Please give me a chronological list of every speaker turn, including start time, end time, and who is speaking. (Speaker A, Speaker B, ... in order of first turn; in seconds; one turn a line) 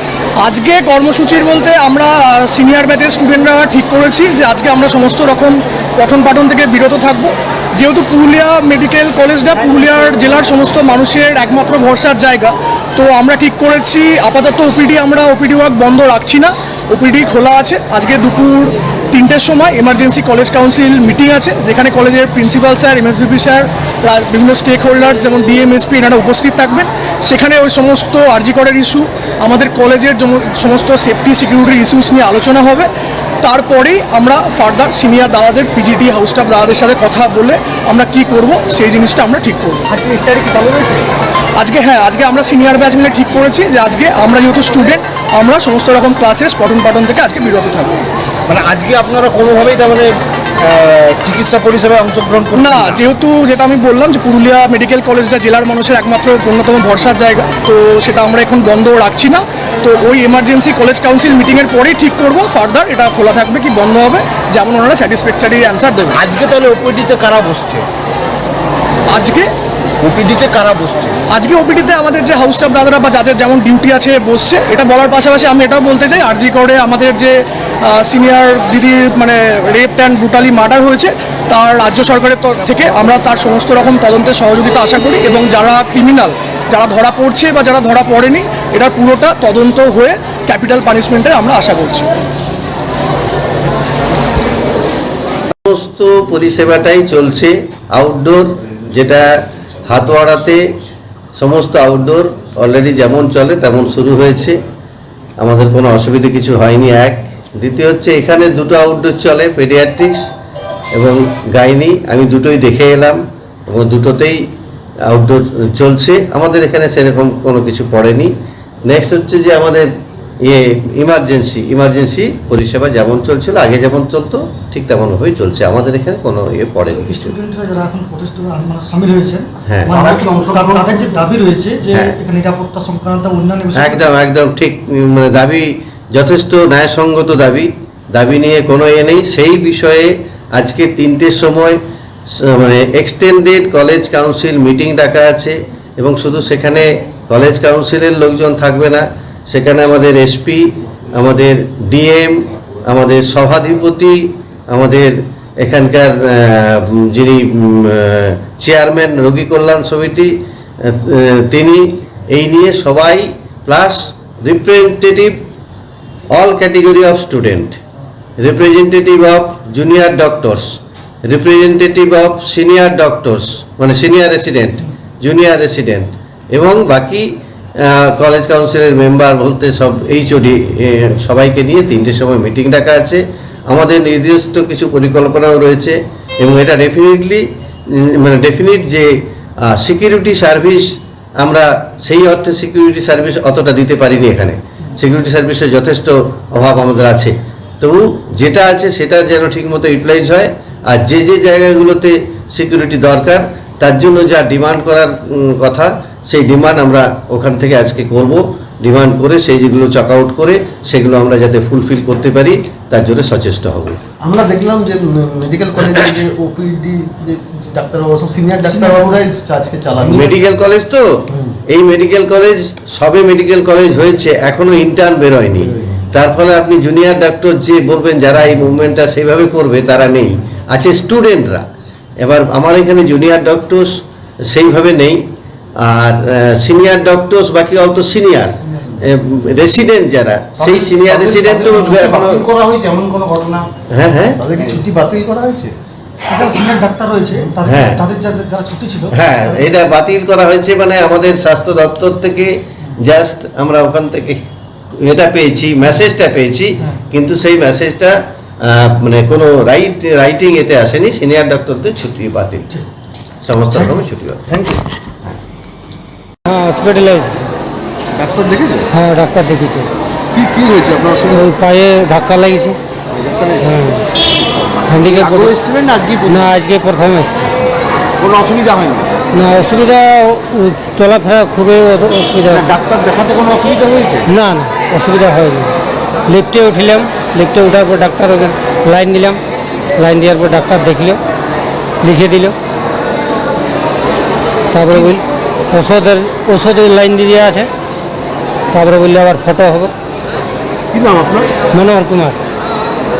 Speaker A: 0.4-32.9
Speaker A: 33.4-39.9
Speaker B: 39.9-41.0
Speaker A: 41.6-47.9
Speaker B: 48.5-53.0
Speaker A: 52.5-66.2
Speaker B: 66.1-67.8
Speaker A: 69.1-69.5
Speaker B: 70.0-71.2
Speaker A: 71.3-92.1
Speaker C: 95.6-100.6
Speaker C: 101.4-104.6
Speaker C: 105.4-110.3
Speaker C: 110.9-114.5
Speaker C: 115.1-118.3
Speaker C: 118.8-119.9
Speaker C: 120.4-127.3
Speaker D: 126.9-134.1
Speaker C: 129.7-130.2
Speaker C: 131.9-132.1
Speaker C: 133.8-141.8
Speaker C: 142.3-165.4
Speaker C: 166.3-167.8
Speaker C: 168.4-177.3
Speaker C: 177.8-214.0
Speaker E: 214.2-220.4
Speaker D: 218.6-219.3
Speaker C: 220.1-221.1
Speaker C: 221.7-231.7
Speaker C: 232.2-235.2
Speaker C: 235.8-242.5
Speaker B: 240.6-243.7
Speaker C: 243.9-244.4
Speaker E: 244.4-245.7
Speaker D: 244.6-244.9
Speaker D: 246.3-249.9
Speaker C: 247.6-248.0
Speaker C: 249.1-262.7
Speaker C: 263.4-264.4
Speaker E: 264.5-264.8
Speaker F: 266.4-267.5
Speaker E: 268.1-268.9
Speaker F: 268.9-269.9
Speaker E: 270.3-271.5
Speaker F: 271.4-272.8
Speaker E: 273.4-273.7
Speaker F: 273.6-274.0
Speaker F: 274.9-275.6
Speaker E: 275.2-275.5
Speaker B: 275.2-276.3
Speaker F: 276.2-277.5
Speaker B: 278.2-279.1
Speaker F: 279.3-282.8
Speaker B: 282.6-284.2
Speaker F: 284.3-285.7
Speaker F: 286.3-289.4
Speaker F: 290.0-291.2
Speaker F: 292.0-292.6
Speaker F: 294.7-297.7
Speaker F: 298.7-299.9
Speaker E: 300.9-301.5
Speaker F: 301.7-302.4